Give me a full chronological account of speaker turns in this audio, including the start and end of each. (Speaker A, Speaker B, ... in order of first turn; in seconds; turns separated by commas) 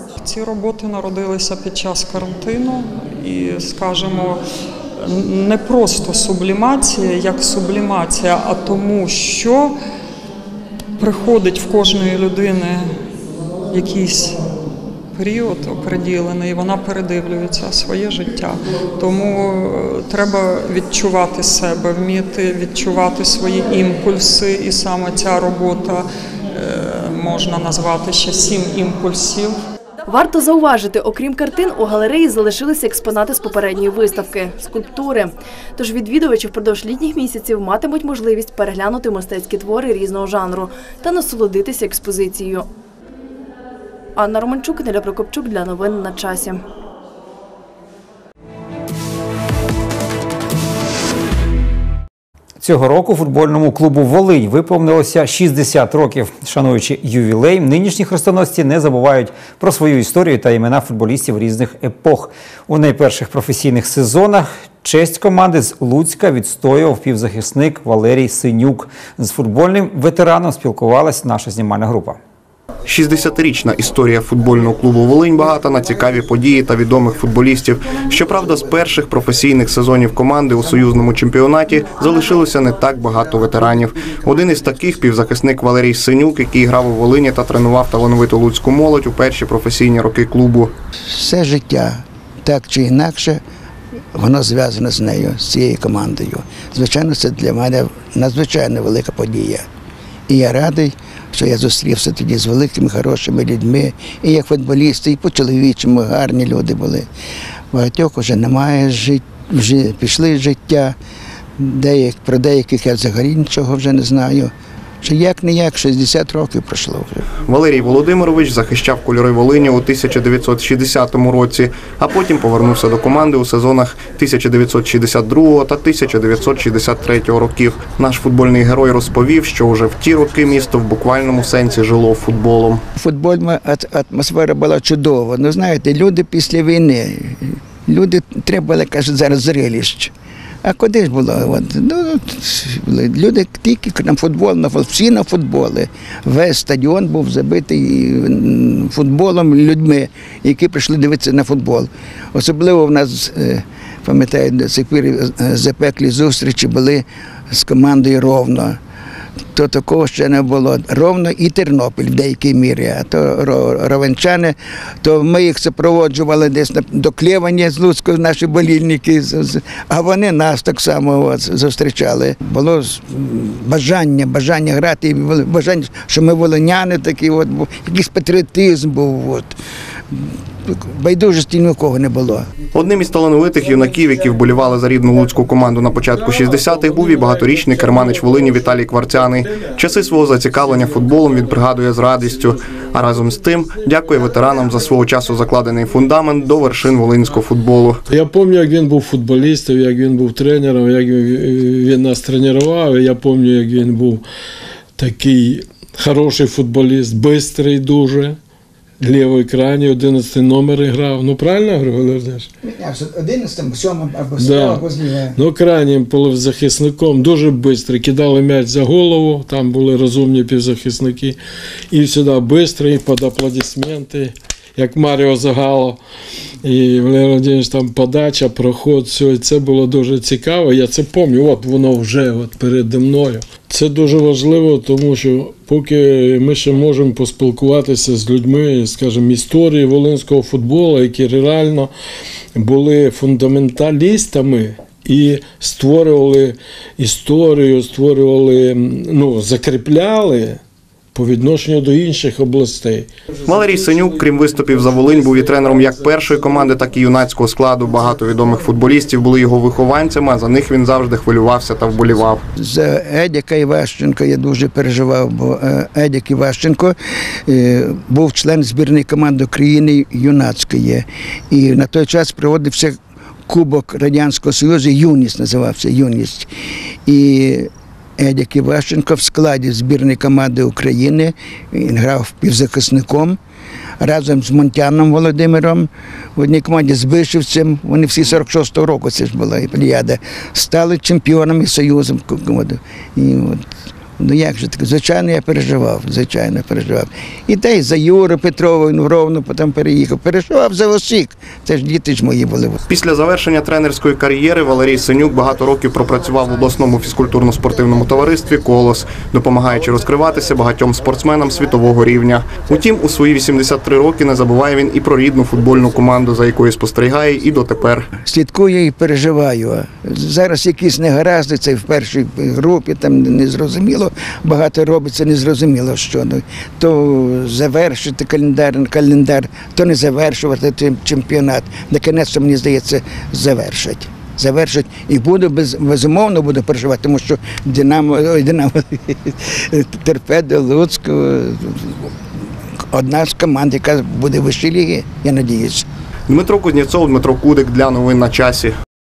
Speaker A: 0.2-4.4, Speaker A: 5.0-9.7, Speaker A: 11.0-13.0, Speaker A: 13.7-14.5, Speaker A: 15.1-29.6, Speaker B: 30.1-42.7, Speaker B: 44.1-46.6, Speaker C: 52.6-72.2, Speaker D: 72.9-90.7, Speaker E: 91.1-93.4, Speaker E: 94.1-99.7, Speaker E: 100.3-107.1, Speaker E: 107.7-111.0, Speaker E: 111.6-117.3, Speaker D: 117.5-132.8, Speaker E: 132.9-140.1, Speaker E: 140.6-158.8, Speaker E: 159.5-179.5, Speaker E: 180.1-182.5, Speaker D: 182.7-198.0, Speaker F: 198.1-204.2, Speaker F: 205.0-208.4, Speaker F: 209.0-212.5, Speaker E: 212.6-215.4, Speaker F: 214.4-214.8, Speaker F: 215.3-221.4, Speaker F: 221.9-226.0, Speaker F: 226.6-241.9, Speaker F: 242.6-250.6, Speaker F: 251.1-253.1, Speaker D: 253.4-262.4, Speaker E: 262.5-266.9, Speaker E: 267.4-276.5, Speaker E: 277.0-283.4, Speaker E: 284.0-293.6, Speaker E: 294.2-302.8, Speaker D: 302.9-318.1, Speaker E: 318.2-342.1, Speaker E: 342.9-345.9, Speaker D: 346.3-348.7